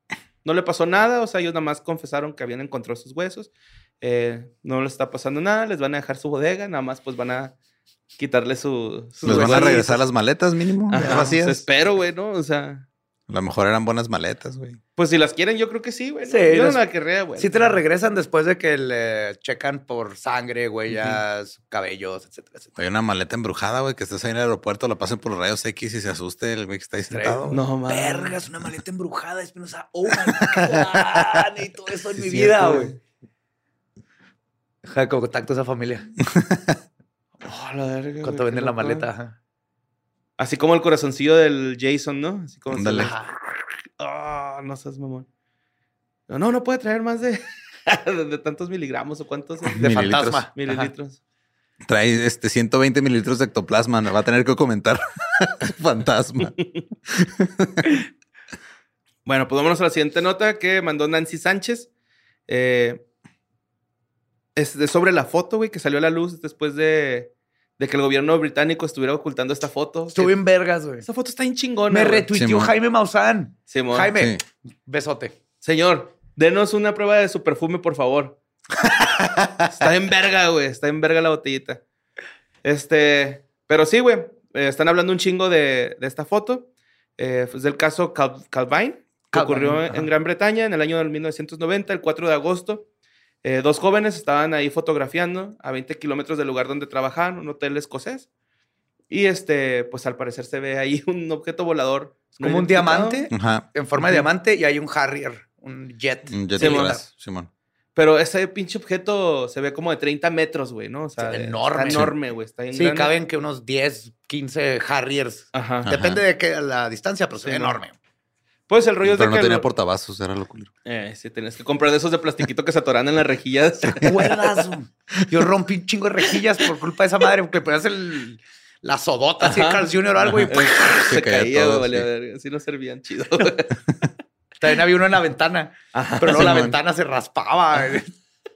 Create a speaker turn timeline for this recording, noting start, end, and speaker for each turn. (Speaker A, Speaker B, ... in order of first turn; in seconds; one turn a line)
Speaker A: 0.4-3.5
Speaker A: 4.0-7.5
Speaker A: 8.2-9.9
Speaker B: 9.2-10.0
Speaker C: 9.2-11.7
Speaker A: 10.9-12.8
Speaker B: 11.0-11.3
Speaker C: 13.3-14.8
Speaker A: 15.0-17.8
Speaker B: 16.3-16.8
Speaker B: 17.4-22.7
Speaker C: 22.8-27.5
Speaker B: 27.1-33.0
Speaker A: 27.5-28.4
Speaker A: 32.2-33.0
Speaker B: 34.8-36.1
Speaker C: 36.3-36.8
Speaker A: 37.4-39.1
Speaker B: 38.2-39.4
Speaker A: 40.4-43.2
Speaker C: 42.7-43.1
Speaker B: 43.0-43.3
Speaker A: 44.0-45.3
Speaker A: 46.3-49.9
Speaker B: 49.8-50.9
Speaker C: 49.8-50.5
Speaker A: 50.5-51.2
Speaker C: 51.9-56.5
Speaker C: 57.1-57.9
Speaker A: 59.3-61.9
Speaker A: 62.5-63.0
Speaker A: 64.6-70.4
Speaker B: 70.1-71.1
Speaker A: 71.0-72.3
Speaker B: 71.9-75.3
Speaker C: 72.3-72.7
Speaker A: 73.7-74.1
Speaker C: 74.2-74.4
Speaker A: 75.6-78.4
Speaker A: 79.7-81.8
Speaker A: 82.6-92.8
Speaker B: 89.3-90.1
Speaker A: 93.4-98.3
Speaker A: 99.1-103.3
Speaker B: 102.4-107.0
Speaker C: 103.3-103.7
Speaker C: 106.3-107.5
Speaker A: 106.6-107.0
Speaker A: 108.0-113.1
Speaker B: 111.2-112.1
Speaker B: 112.7-118.0
Speaker A: 115.5-115.9
Speaker C: 115.9-116.2
Speaker A: 117.4-117.8
Speaker A: 118.7-119.7
Speaker C: 119.0-120.7
Speaker A: 120.9-124.7
Speaker B: 124.0-131.1
Speaker A: 129.4-129.9
Speaker C: 130.3-132.1
Speaker A: 130.5-133.8
Speaker B: 134.6-138.1
Speaker A: 135.9-136.6
Speaker C: 136.3-136.7